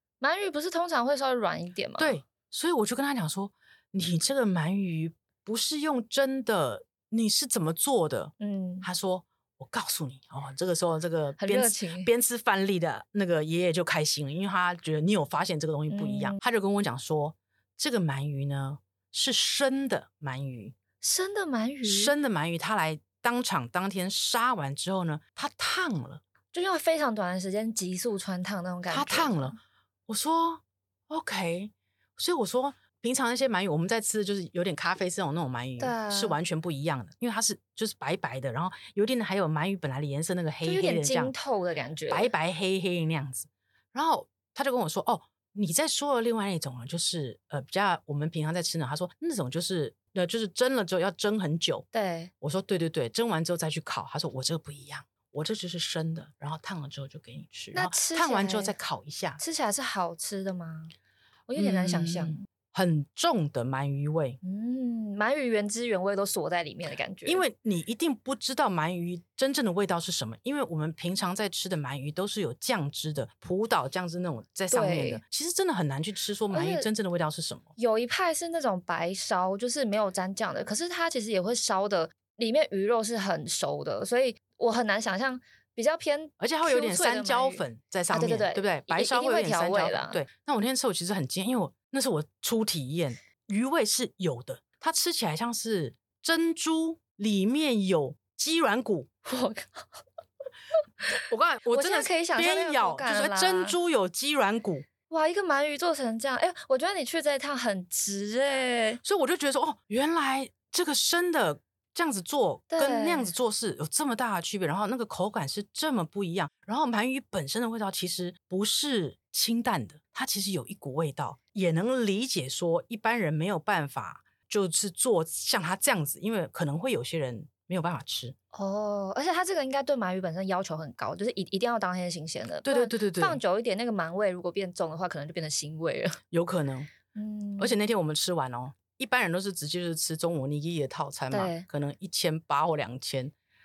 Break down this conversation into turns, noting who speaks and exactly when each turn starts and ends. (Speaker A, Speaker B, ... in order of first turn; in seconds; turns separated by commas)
Speaker A: 0.2-2.2, Speaker B: 2.0-20.8, Speaker A: 8.4-8.9, Speaker A: 11.4-12.1, Speaker A: 15.9-16.4, Speaker A: 21.0-22.1, Speaker B: 21.9-26.2, Speaker A: 26.5-29.6, Speaker B: 28.9-41.3, Speaker A: 35.8-36.4, Speaker A: 40.6-42.3, Speaker B: 42.1-51.9, Speaker A: 51.9-52.3, Speaker B: 52.4-59.4, Speaker A: 57.7-58.7, Speaker A: 59.4-60.9, Speaker A: 61.5-62.4, Speaker B: 61.6-64.4, Speaker A: 64.4-67.4, Speaker B: 67.2-77.7, Speaker A: 74.7-75.2, Speaker A: 76.5-76.9, Speaker A: 77.8-90.2, Speaker B: 86.4-99.1, Speaker A: 99.2-100.0, Speaker B: 101.3-104.9, Speaker A: 101.7-103.8, Speaker A: 105.1-109.0, Speaker B: 109.0-128.4, Speaker A: 112.7-113.3, Speaker A: 128.5-136.2, Speaker B: 132.6-133.4, Speaker B: 136.3-136.9, Speaker A: 137.1-137.8, Speaker B: 137.6-143.3, Speaker A: 141.3-141.7